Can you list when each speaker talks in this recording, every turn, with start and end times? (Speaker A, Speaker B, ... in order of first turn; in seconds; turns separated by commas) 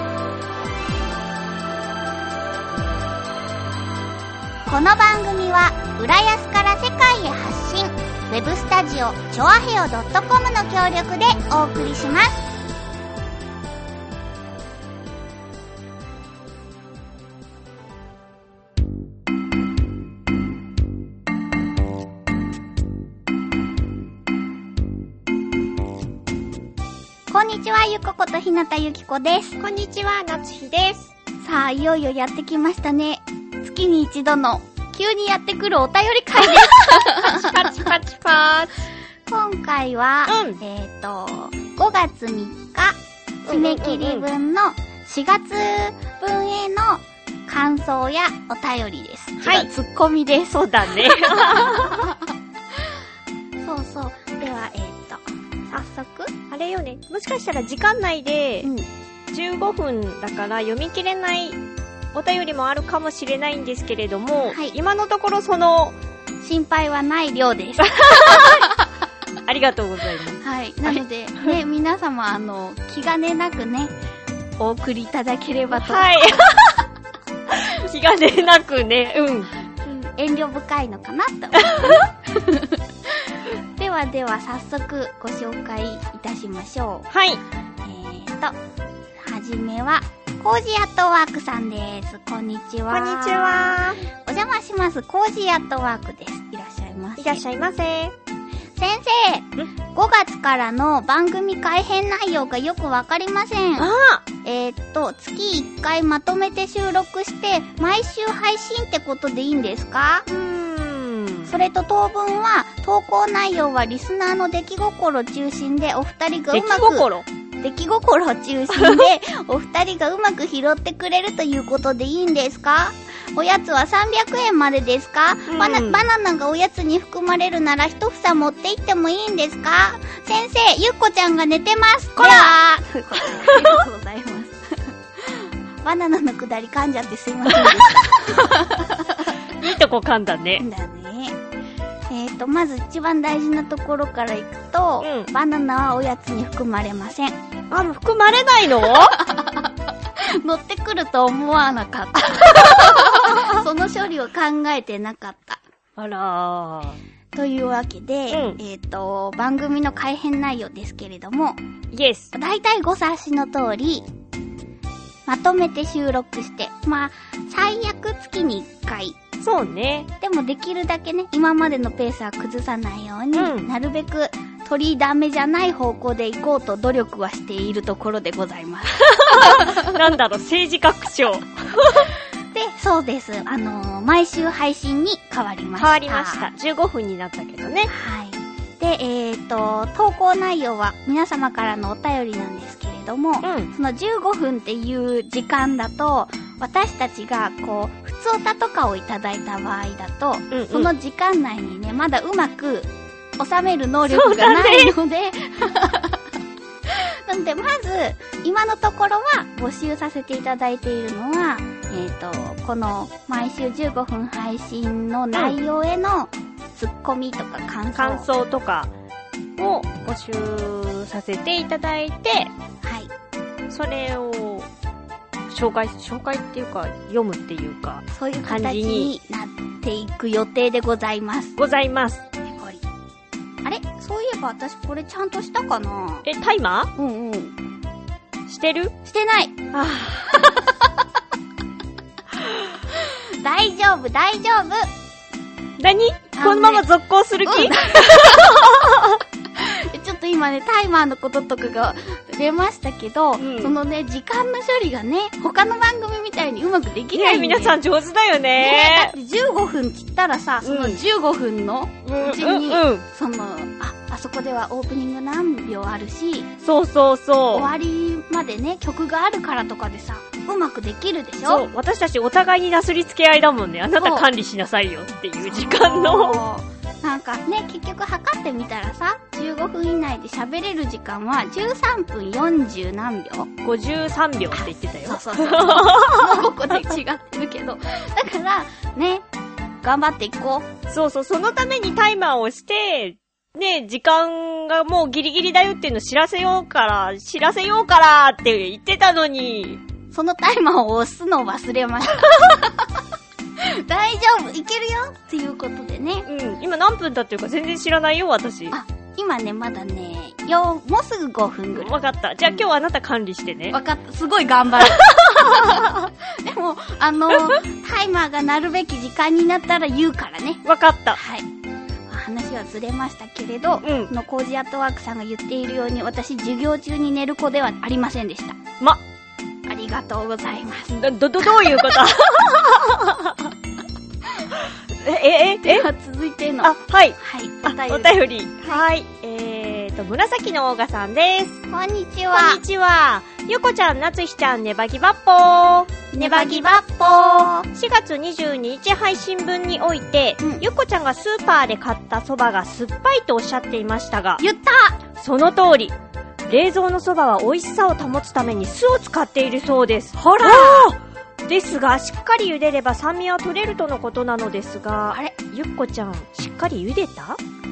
Speaker A: 4.7-12.4, Speaker A: 27.3-29.6, Speaker B: 29.6-31.1, Speaker A: 31.4-38.0, Speaker B: 37.2-38.9, Speaker A: 39.3-52.2, Speaker B: 40.3-40.6, Speaker B: 43.4-44.3, Speaker B: 49.4-49.7, Speaker B: 50.6-52.1, Speaker A: 53.6-56.3, Speaker B: 56.5-58.7, Speaker B: 59.3-61.6, Speaker B: 62.1-66.0, Speaker A: 64.5-64.7, Speaker A: 66.4-68.8, Speaker B: 67.9-68.7, Speaker B: 69.5-71.5, Speaker A: 70.4-73.9, Speaker A: 74.6-76.1, Speaker B: 75.7-76.8, Speaker B: 77.5-79.5, Speaker A: 79.8-87.1, Speaker B: 81.6-82.0, Speaker B: 87.1-87.4, Speaker A: 87.8-88.6, Speaker A: 89.2-97.4, Speaker B: 92.9-94.0, Speaker B: 97.2-98.1, Speaker A: 98.7-103.9, Speaker B: 103.8-104.2, Speaker A: 104.4-110.3, Speaker B: 110.3-111.5, Speaker A: 111.5-117.1, Speaker B: 116.5-117.3, Speaker A: 117.6-139.3, Speaker B: 118.7-119.1, Speaker B: 125.5-126.0, Speaker B: 132.2-132.5, Speaker B: 133.2-133.8, Speaker B: 139.6-140.6, Speaker A: 140.6-141.4, Speaker A: 142.1-147.4, Speaker B: 145.0-145.3, Speaker B: 147.7-149.2, Speaker A: 148.8-155.6, Speaker B: 152.7-153.5, Speaker B: 156.0-157.0, Speaker A: 157.3-161.6, Speaker B: 158.3-158.6, Speaker B: 161.9-162.3, Speaker A: 162.3-164.1, Speaker A: 165.2-169.2, Speaker B: 169.4-170.1, Speaker A: 170.2-179.9, Speaker B: 173.3-173.7, Speaker B: 179.0-182.1, Speaker A: 182.5-186.5, Speaker B: 185.8-187.9, Speaker A: 187.9-206.2, Speaker B: 193.4-193.7, Speaker B: 200.5-200.9, Speaker B: 204.1-204.9, Speaker A: 206.9-218.3, Speaker B: 217.9-218.9, Speaker B: 219.6-222.5, Speaker A: 222.8-223.1, Speaker B: 223.7-224.7, Speaker B: 225.5-229.1, Speaker A: 228.1-231.6, Speaker B: 231.6-232.2, Speaker A: 232.4-232.8, Speaker A: 233.6-236.2, Speaker B: 236.2-236.9, Speaker A: 236.9-237.5, Speaker B: 238.5-238.9, Speaker A: 239.0-239.5, Speaker B: 239.7-240.5, Speaker A: 240.4-240.9, Speaker A: 242.9-244.9, Speaker B: 245.8-249.2, Speaker A: 246.3-246.8, Speaker A: 247.4-248.7, Speaker A: 249.6-257.8, Speaker B: 253.4-253.7, Speaker B: 257.1-259.1, Speaker A: 258.6-266.5, Speaker B: 260.6-261.0, Speaker B: 262.0-263.0, Speaker B: 266.6-267.7, Speaker A: 267.5-271.6, Speaker B: 271.4-276.4, Speaker A: 274.0-274.3, Speaker A: 275.4-283.5, Speaker B: 283.6-286.5, Speaker A: 284.5-289.2, Speaker A: 289.8-290.7, Speaker B: 290.9-299.8, Speaker A: 300.1-303.0, Speaker A: 303.6-306.3, Speaker B: 306.2-308.8, Speaker A: 308.7-311.9, Speaker B: 311.7-313.8, Speaker A: 313.7-320.6, Speaker B: 320.6-321.2, Speaker A: 321.1-321.5, Speaker A: 322.1-328.6, Speaker B: 323.8-324.1, Speaker A: 329.6-332.0, Speaker B: 330.9-333.5, Speaker B: 334.9-335.9, Speaker A: 335.6-338.8, Speaker B: 336.6-341.6, Speaker A: 341.7-342.6, Speaker B: 342.3-354.4, Speaker A: 346.1-347.7, Speaker A: 350.4-350.6, Speaker A: 354.4-355.0, Speaker B: 355.2-355.9, Speaker B: 356.5-367.4, Speaker A: 360.4-360.9, Speaker A: 365.1-365.4